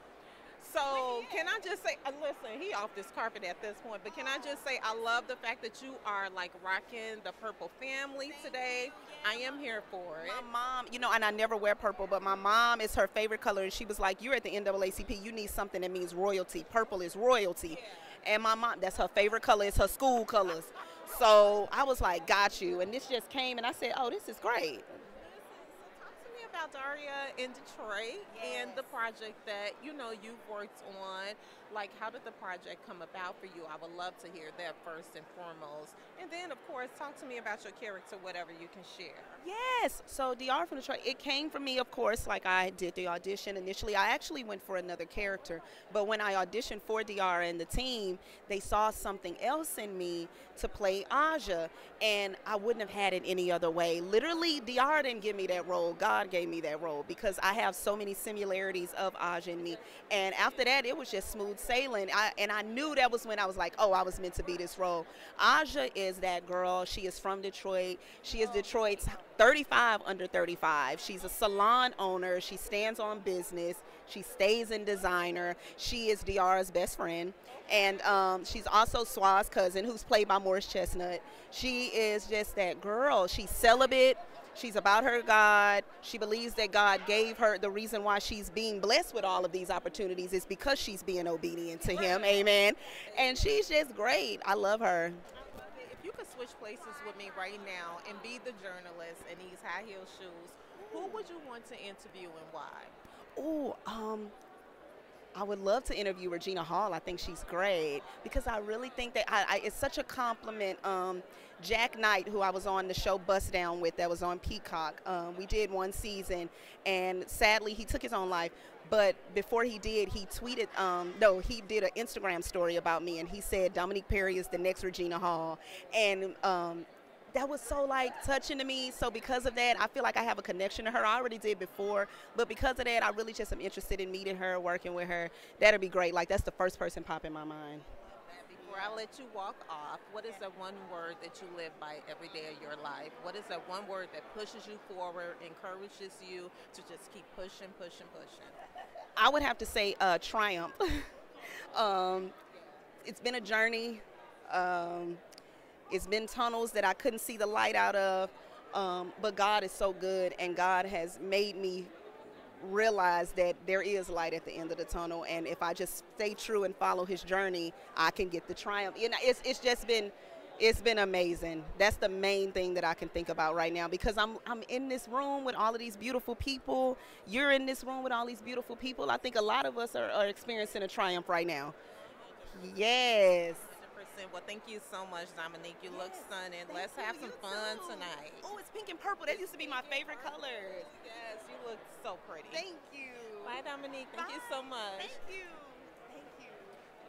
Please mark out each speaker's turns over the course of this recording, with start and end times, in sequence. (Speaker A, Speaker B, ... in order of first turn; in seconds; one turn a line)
Speaker A: 0.6-10.5
Speaker B: 0.9-1.6
Speaker B: 4.1-5.2
Speaker B: 8.3-25.0
Speaker A: 25.1-39.4
Speaker B: 28.3-28.9
Speaker B: 39.4-95.2
Speaker A: 91.8-93.6
Speaker A: 95.3-103.0
Speaker B: 100.8-101.3
Speaker B: 103.4-104.3
Speaker B: 105.3-137.8
Speaker A: 138.2-148.6
Speaker B: 138.6-139.1
Speaker B: 149.2-151.1
Speaker B: 151.7-152.3
Speaker B: 153.0-155.2
Speaker B: 155.9-161.9
Speaker B: 162.6-181.8
Speaker A: 182.3-182.8
Speaker B: 182.5-183.7
Speaker A: 183.5-188.5
Speaker B: 185.9-190.9
Speaker A: 189.3-192.7
Speaker B: 192.5-193.6
Speaker A: 193.4-195.2
Speaker B: 194.1-196.8